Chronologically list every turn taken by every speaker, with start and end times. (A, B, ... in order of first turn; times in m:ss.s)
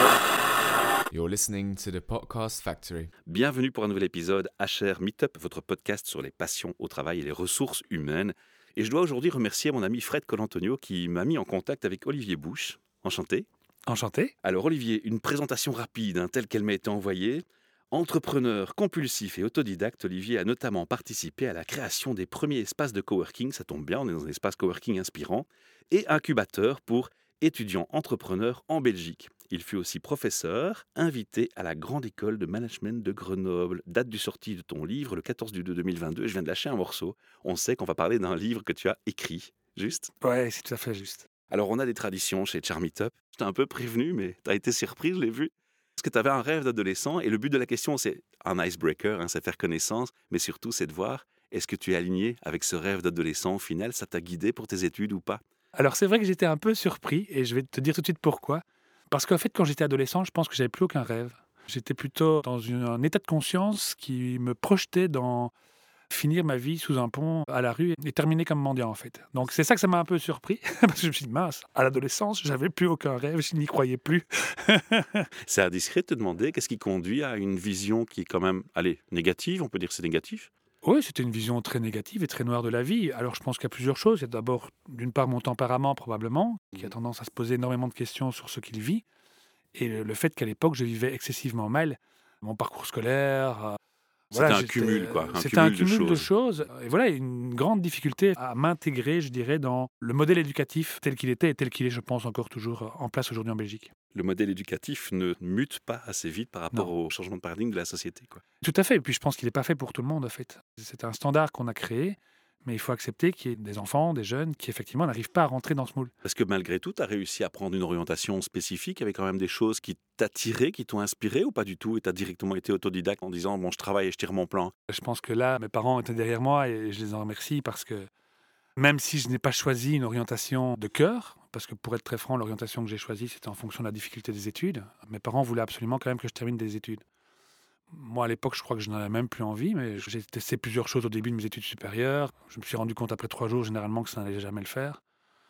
0:01.1-0:03.1 A
0:03.3-0:13.5 B
0:13.9-0:14.3 C
0:14.4-0:40.1 B
0:40.2-0:41.3 C
0:41.5-0:55.4 B
0:55.8-1:05.5 C
1:06.1-1:15.3 C
1:15.5-1:20.5 B
1:20.8-1:29.0 C
1:29.7-1:33.8 C
1:34.3-1:43.9 C
1:34.3-1:36.3 B
1:44.1-1:48.4 B
1:48.6-1:56.1 C
1:56.2-2:04.7 B
2:04.9-2:08.1 C
2:08.8-2:17.0 C
2:17.9-2:25.0 C